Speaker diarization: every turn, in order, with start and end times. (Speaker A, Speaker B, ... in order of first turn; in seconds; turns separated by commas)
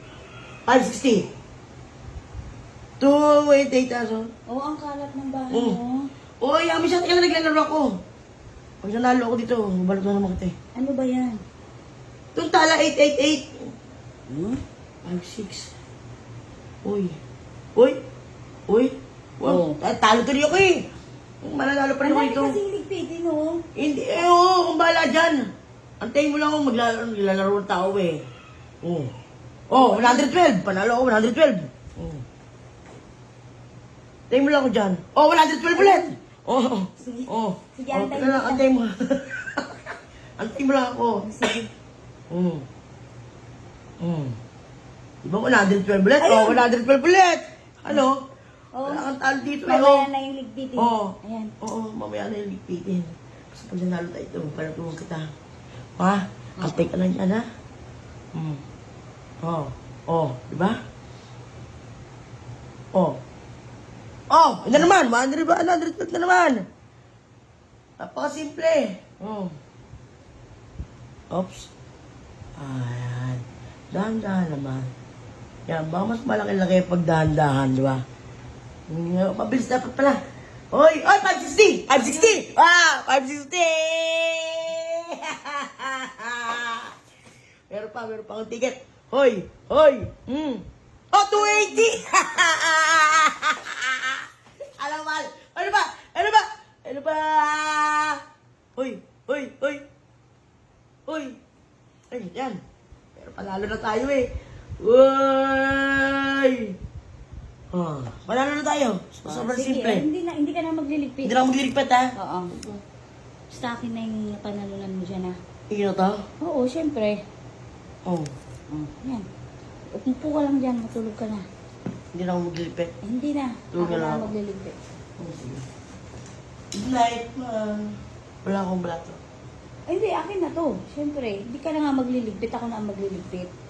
Speaker A: 0.7-1.3, Speaker A: 3.0-4.3, Speaker B: 4.5-6.1, Speaker A: 5.5-5.8, Speaker A: 6.4-7.9, Speaker A: 8.8-10.5, Speaker B: 10.8-11.4, Speaker A: 12.3-13.7, Speaker B: 14.3-14.6, Speaker A: 15.0-15.7, Speaker A: 16.8-17.2, Speaker A: 18.7-20.8, Speaker B: 19.4-19.8, Speaker A: 21.4-22.6, Speaker B: 22.0-23.6, Speaker A: 23.8-25.4, Speaker A: 26.0-28.2, Speaker A: 28.8-29.1, Speaker A: 29.7-32.2, Speaker B: 29.8-30.3, Speaker A: 34.3-39.6, Speaker B: 35.7-36.1, Speaker B: 37.0-38.6, Speaker A: 40.4-41.2, Speaker B: 41.2-41.7, Speaker A: 42.3-42.6, Speaker A: 44.0-44.4, Speaker A: 45.2-48.2, Speaker B: 46.2-46.6, Speaker B: 48.7-49.0, Speaker A: 48.8-50.1, Speaker B: 49.6-51.5, Speaker A: 50.8-55.3, Speaker A: 56.0-57.4, Speaker B: 56.6-56.9, Speaker A: 58.3-58.6, Speaker A: 59.4-60.8, Speaker A: 62.9-63.2, Speaker A: 64.3-66.6, Speaker A: 68.0-69.5, Speaker A: 71.3-71.7, Speaker A: 72.6-74.9, Speaker A: 75.7-78.0, Speaker A: 78.9-80.2, Speaker A: 80.7-86.9, Speaker A: 87.7-94.2, Speaker A: 94.8-98.2, Speaker A: 98.8-99.8, Speaker A: 101.1-101.3, Speaker A: 102.1-102.6, Speaker A: 103.2-104.3, Speaker A: 104.8-106.7, Speaker A: 107.7-110.1, Speaker B: 109.2-111.3, Speaker A: 111.2-112.8, Speaker B: 112.2-112.5, Speaker B: 113.5-115.4, Speaker A: 115.7-116.2, Speaker B: 116.4-117.2, Speaker A: 118.0-118.3, Speaker B: 118.7-119.2, Speaker B: 119.9-121.5, Speaker A: 122.1-122.9, Speaker B: 123.0-124.8, Speaker A: 123.7-124.3, Speaker A: 125.2-125.6, Speaker A: 126.7-129.2, Speaker B: 129.9-133.5